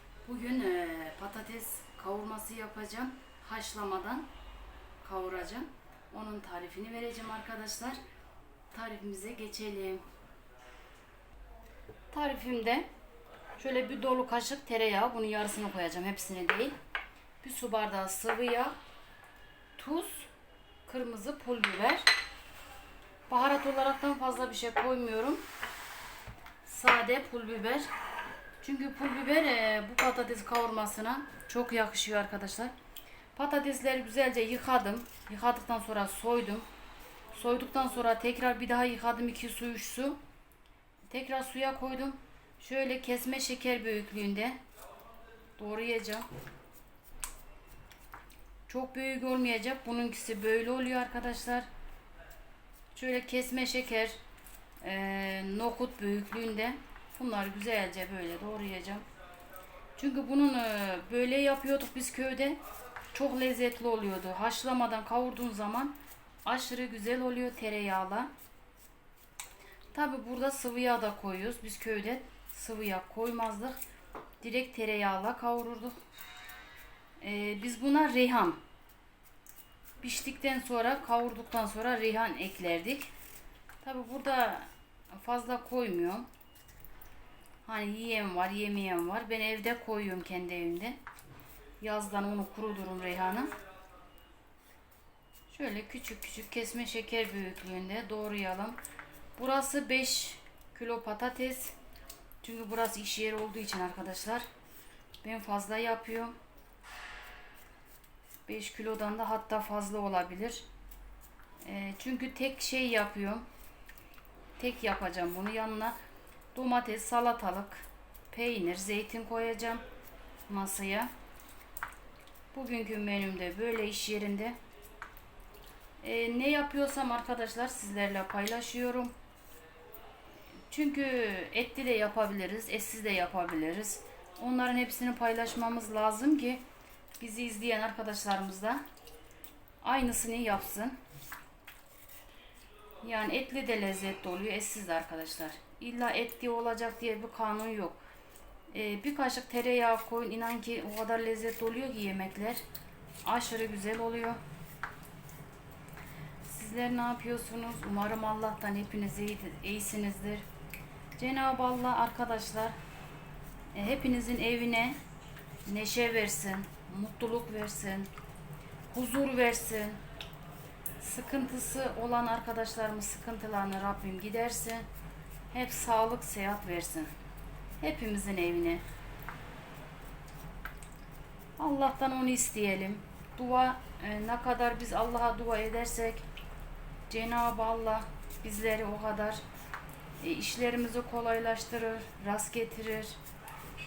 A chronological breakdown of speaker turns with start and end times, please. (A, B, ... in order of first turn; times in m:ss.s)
0:00.2-0:04.3 A
0:05.0-0:08.0 A
0:08.7-0:10.0 A
0:12.1-0:12.9 A
0:13.6-0:16.8 A
0:17.4-0:18.8 A
0:19.8-0:20.3 A
0:20.8-0:22.1 A
0:23.3-0:25.4 A
0:26.6-0:27.9 A
0:28.6-0:32.7 A
0:33.3-0:36.6 A
0:37.3-0:40.2 A
0:41.1-0:44.6 A
0:45.6-0:46.3 A
0:48.7-0:51.7 A
0:52.9-0:54.2 A
0:54.8-0:59.0 A
1:00.0-1:02.6 A
1:03.1-1:08.3 A
1:09.9-1:13.8 A
1:14.4-1:16.0 A
1:17.2-1:18.6 A
1:20.0-1:23.1 A
1:23.8-1:26.3 A
1:27.6-1:31.0 A
1:31.8-1:33.5 A
1:35.5-1:38.8 A
1:39.4-1:41.7 A
1:42.4-1:44.5 A
1:45.2-1:46.4 A
1:48.5-1:50.6 A
1:51.6-1:53.4 A
1:54.6-1:56.0 A
1:56.5-1:59.8 A
2:00.5-2:01.1 A
2:02.5-2:04.6 A
2:06.0-2:09.1 A
2:10.7-2:16.6 A
2:17.2-2:18.8 A
2:19.8-2:21.0 A
2:23.0-2:28.0 A
2:28.7-2:32.6 A
2:33.2-2:34.4 A
2:36.4-2:40.4 A
2:41.2-2:42.8 A
2:43.7-2:45.0 A
2:45.6-2:48.1 A
2:48.9-2:50.0 A
2:51.0-2:54.8 A
2:55.5-2:57.1 A
2:57.8-2:58.8 A
3:01.6-3:06.2 A
3:07.1-3:09.4 A
3:10.2-3:13.2 A